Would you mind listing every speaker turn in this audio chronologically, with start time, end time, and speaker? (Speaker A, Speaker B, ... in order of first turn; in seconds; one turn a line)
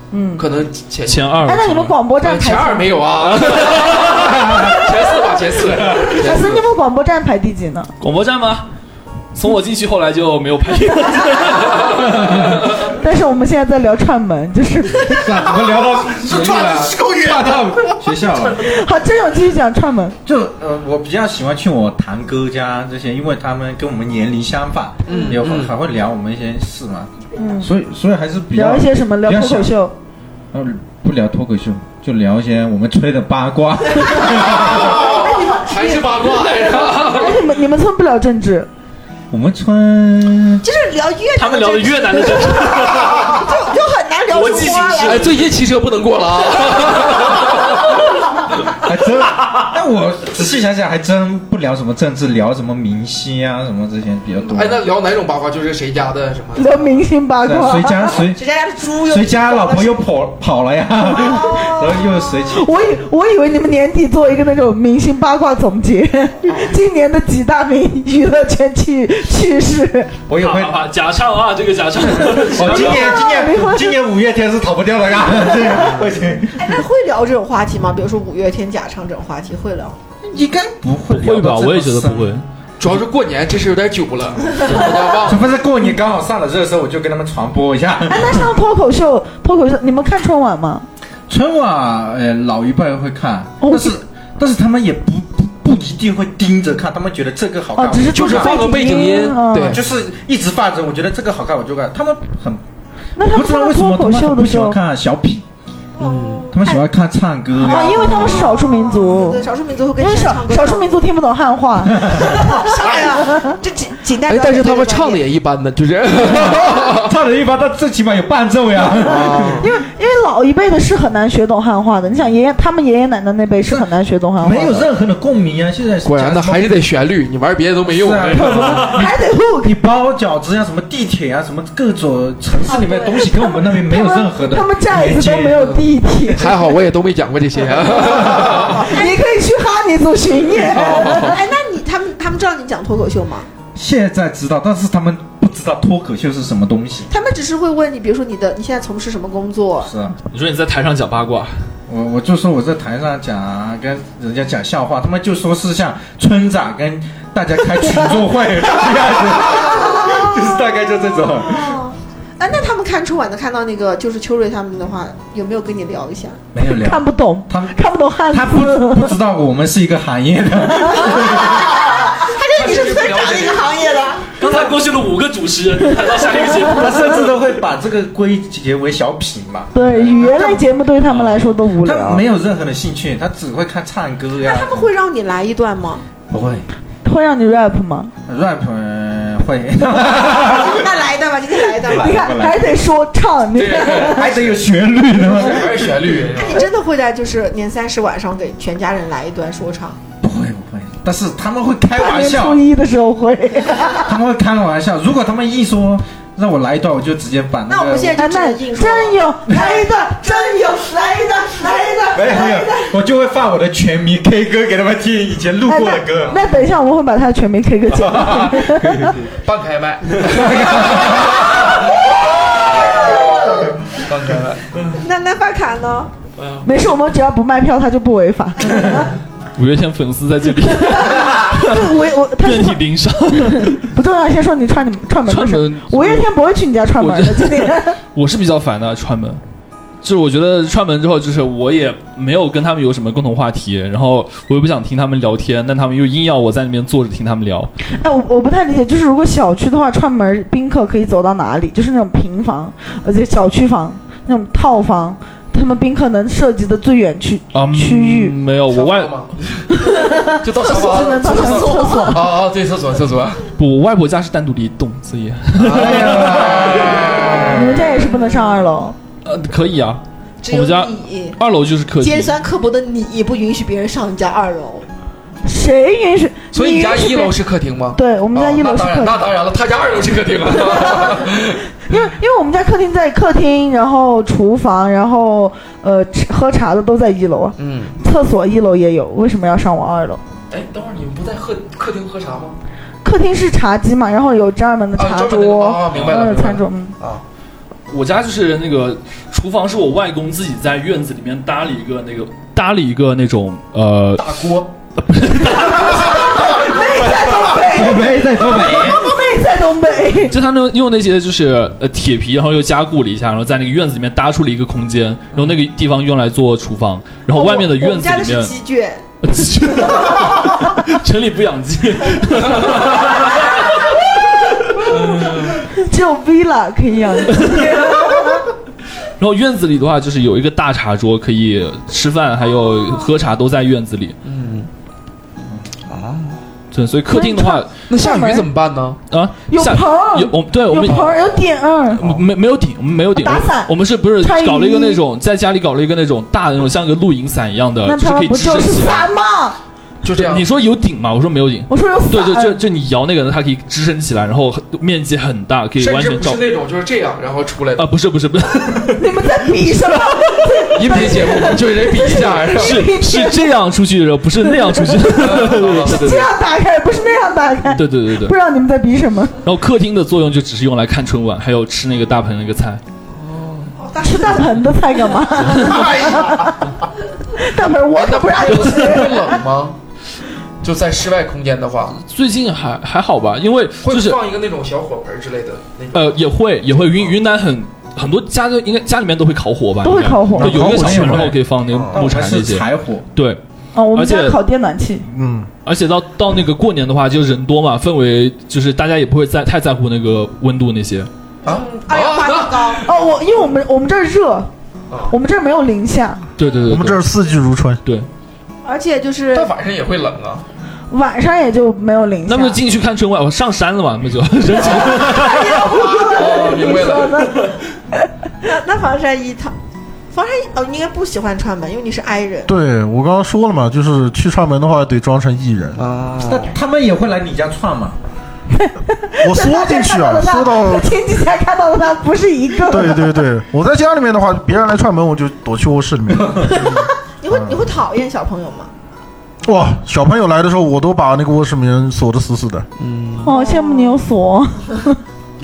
Speaker A: 0.1-0.5
Speaker B: 0.3-1.3
Speaker C: 1.1-1.9
Speaker A: 1.4-3.0
Speaker B: 2.2-6.6
Speaker C: 3.3-4.5
Speaker A: 4.6-5.1
Speaker A: 6.0-7.9
Speaker C: 8.0-8.7
Speaker C: 9.3-12.9
Speaker A: 12.9-15.4
Speaker D: 15.0-18.8
Speaker B: 16.2-17.6
Speaker A: 18.6-20.1
Speaker D: 20.2-29.7
Speaker B: 25.1-25.7
Speaker A: 27.4-27.7
Speaker A: 28.5-29.9
Speaker D: 30.5-35.1
Speaker B: 34.5-37.4
Speaker A: 34.8-38.7
Speaker D: 39.3-40.6
Speaker E: 40.6-45.4
Speaker C: 41.4-43.5
Speaker C: 44.3-45.5
Speaker B: 45.0-48.2
Speaker D: 48.8-54.8
Speaker B: 54.5-57.0
Speaker A: 56.5-58.1
Speaker D: 57.4-58.4
Speaker E: 58.2-60.0
Speaker D: 59.1-63.0
Speaker A: 61.1-61.6
Speaker E: 61.2-62.0
Speaker A: 62.5-70.1
Speaker B: 66.5-66.7
Speaker D: 70.3-70.8
Speaker C: 70.3-73.2
Speaker D: 72.3-76.8
Speaker A: 72.6-74.0
Speaker B: 75.7-76.1
Speaker E: 76.5-80.0
Speaker D: 80.2-82.3
Speaker C: 81.1-82.4
Speaker B: 82.8-85.5
Speaker D: 84.6-88.5
Speaker A: 88.1-90.9
Speaker D: 91.3-98.7
Speaker A: 93.6-94.0
Speaker A: 97.8-99.8
Speaker B: 98.1-99.8
Speaker D: 99.6-102.6
Speaker A: 103.2-104.8
Speaker D: 103.2-105.4
Speaker E: 106.0-106.8
Speaker B: 106.0-106.5
Speaker D: 106.5-108.5
Speaker A: 107.5-112.7
Speaker E: 108.0-111.0
Speaker D: 112.0-112.4
Speaker E: 112.2-115.2
Speaker B: 114.3-117.1
Speaker D: 116.2-119.7
Speaker B: 119.0-119.7
Speaker A: 119.6-124.9
Speaker D: 123.7-126.7
Speaker B: 126.0-128.9
Speaker D: 127.8-135.6
Speaker A: 128.3-129.7
Speaker A: 132.7-136.7
Speaker E: 132.8-133.2
Speaker B: 135.5-138.8
Speaker D: 138.2-138.7
Speaker A: 138.7-141.4
Speaker B: 140.7-141.4
Speaker E: 141.2-143.5
Speaker D: 143.7-147.1
Speaker E: 147.1-149.9
Speaker D: 149.8-150.2
Speaker C: 150.3-151.5
Speaker D: 151.9-161.8
Speaker A: 157.8-158.1
Speaker E: 159.5-160.3
Speaker E: 161.4-166.4
Speaker D: 166.5-171.7
Speaker A: 166.7-169.1
Speaker E: 171.3-174.3
Speaker B: 172.5-173.7
Speaker C: 174.4-177.2
Speaker D: 176.7-180.7
Speaker A: 179.7-182.2
Speaker C: 181.0-181.6
Speaker D: 181.8-184.8
Speaker E: 184.4-186.0
Speaker D: 186.3-186.7
Speaker A: 187.0-188.1
Speaker D: 188.2-190.9
Speaker E: 190.4-192.2
Speaker D: 191.8-192.8
Speaker A: 191.9-194.3
Speaker B: 193.5-194.6
Speaker D: 194.0-196.2
Speaker B: 195.3-196.7
Speaker E: 196.3-200.0
Speaker D: 200.2-202.6
Speaker A: 201.9-204.1
Speaker D: 203.9-208.2
Speaker E: 207.7-210.8
Speaker A: 208.2-212.8
Speaker D: 209.5-209.8
Speaker E: 211.6-212.1
Speaker D: 212.1-216.4
Speaker A: 215.7-219.1
Speaker D: 217.9-219.3
Speaker B: 219.4-221.9
Speaker D: 220.1-221.6
Speaker B: 222.7-224.6
Speaker E: 224.9-226.1
Speaker B: 226.4-226.8
Speaker A: 226.6-229.1
Speaker C: 229.6-233.8
Speaker A: 230.8-232.8
Speaker A: 233.4-238.0
Speaker C: 235.2-236.3
Speaker C: 237.0-239.4
Speaker C: 240.0-247.7
Speaker A: 247.9-258.3
Speaker C: 257.5-259.2
Speaker B: 258.7-263.5
Speaker A: 259.8-262.3
Speaker E: 260.6-262.2
Speaker C: 263.6-267.4
Speaker B: 265.6-268.2
Speaker D: 265.7-267.8
Speaker A: 267.4-268.9
Speaker C: 269.2-272.4
Speaker E: 270.4-271.4
Speaker E: 272.0-274.9
Speaker A: 275.4-277.3
Speaker B: 276.5-281.6
Speaker A: 277.9-279.3
Speaker A: 280.6-281.2
Speaker A: 281.9-290.2
Speaker B: 287.6-287.9
Speaker B: 290.5-292.6
Speaker A: 293.0-296.9
Speaker B: 294.9-297.2
Speaker C: 297.9-304.4
Speaker B: 304.2-304.6
Speaker C: 305.0-306.5
Speaker A: 305.6-310.4
Speaker D: 307.0-309.1
Speaker C: 310.3-318.5
Speaker E: 317.3-319.0
Speaker C: 319.2-323.9
Speaker B: 324.9-325.6
Speaker A: 325.7-328.4
Speaker C: 327.3-328.0
Speaker C: 329.2-334.2
Speaker B: 334.2-334.7
Speaker B: 335.9-336.4
Speaker C: 336.7-337.7
Speaker A: 337.1-338.5
Speaker B: 337.9-339.0
Speaker C: 339.1-341.1
Speaker A: 339.5-342.0
Speaker B: 340.8-341.4
Speaker C: 342.0-349.1
Speaker A: 343.1-345.0
Speaker A: 347.8-349.6
Speaker B: 350.0-350.5
Speaker C: 350.1-356.4
Speaker A: 351.7-352.6
Speaker B: 355.8-357.9
Speaker C: 357.8-360.2
Speaker A: 359.0-363.5
Speaker B: 360.7-362.8
Speaker C: 362.6-366.3
Speaker A: 364.4-369.4
Speaker B: 365.2-366.1
Speaker C: 367.8-368.3
Speaker C: 369.4-372.8
Speaker B: 373.1-373.7
Speaker E: 373.8-374.6
Speaker A: 374.0-376.5
Speaker C: 375.4-375.9
Speaker A: 377.4-379.4
Speaker B: 377.9-379.8
Speaker C: 378.5-379.0
Speaker B: 380.6-382.0
Speaker C: 382.0-384.2
Speaker B: 383.8-387.1
Speaker C: 385.9-393.4
Speaker A: 389.8-391.0
Speaker D: 390.4-393.1
Speaker F: 390.4-391.3
Speaker B: 391.7-392.0
Speaker A: 393.7-395.1
Speaker C: 393.9-394.4
Speaker F: 395.0-395.5
Speaker C: 395.6-401.1
Speaker B: 401.4-402.9
Speaker E: 401.4-402.8
Speaker A: 402.8-404.5
Speaker A: 405.1-406.2
Speaker C: 406.4-407.0
Speaker F: 406.7-407.8
Speaker E: 408.6-409.5
Speaker B: 409.3-410.4
Speaker A: 410.9-412.6
Speaker C: 412.2-415.6
Speaker B: 414.6-415.1
Speaker A: 414.6-418.1
Speaker E: 415.7-416.5
Speaker B: 415.9-417.2
Speaker E: 418.4-419.5
Speaker E: 420.1-422.5
Speaker F: 422.5-425.8
Speaker B: 425.8-426.5
Speaker D: 426.2-428.0
Speaker A: 428.5-433.3
Speaker F: 429.2-430.9
Speaker F: 432.7-436.4
Speaker D: 436.1-436.6
Speaker E: 436.5-438.7
Speaker F: 437.3-437.6
Speaker F: 439.4-442.6
Speaker B: 442.8-443.3
Speaker A: 443.2-445.0
Speaker E: 443.2-444.1